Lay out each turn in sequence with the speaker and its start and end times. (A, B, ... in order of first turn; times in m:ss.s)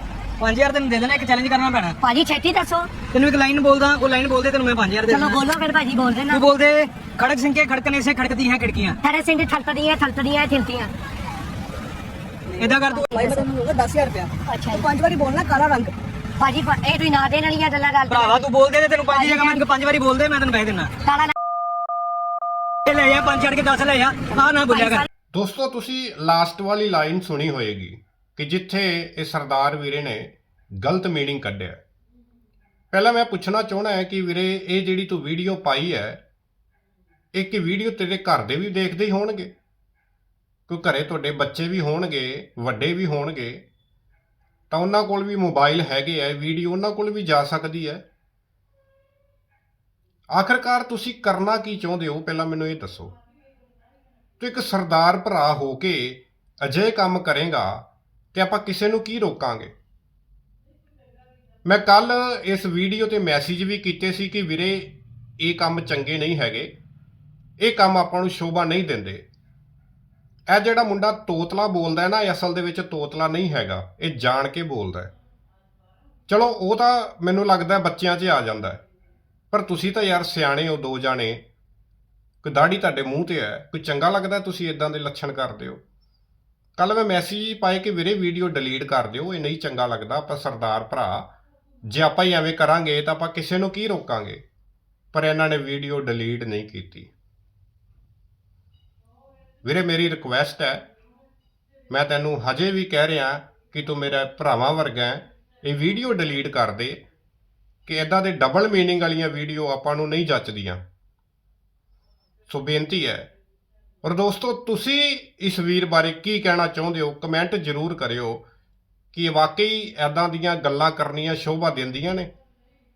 0:00.4-0:02.0 A
0:02.0-0:02.9 B
0:03.1-0:05.4 A
0:05.1-0:06.4 B
0:06.3-0:09.0 A
0:09.0-0:10.9 B
0:12.6-0:13.6 A
0:12.6-0:15.9 C
0:13.1-0:13.4 B
0:14.5-0:14.9 B
0:16.4-0:18.4 B
0:18.1-0:20.9 A
0:19.1-0:19.6 B
0:21.0-0:21.3 B
0:22.8-0:25.1 A
0:24.7-0:25.1 B
0:25.3-0:31.8 D
0:32.9-0:36.2 D
0:37.3-0:39.5 D
0:40.7-0:43.6 D
0:44.7-0:48.0 D
0:50.3-0:53.2 D
0:54.4-0:59.7 D
1:01.6-1:06.7 D
1:07.6-1:09.2 D
1:10.5-1:15.1 D
1:16.3-1:18.8 D
1:19.5-1:21.4 D
1:22.4-1:25.8 D
1:26.8-1:31.3 D
1:31.8-1:34.4 D
1:35.1-1:37.1 D
1:39.6-1:40.9 D
1:41.9-1:47.0 D
1:47.9-1:50.8 D
1:52.5-1:53.3 D
1:54.0-1:58.4 D
1:59.1-2:02.3 D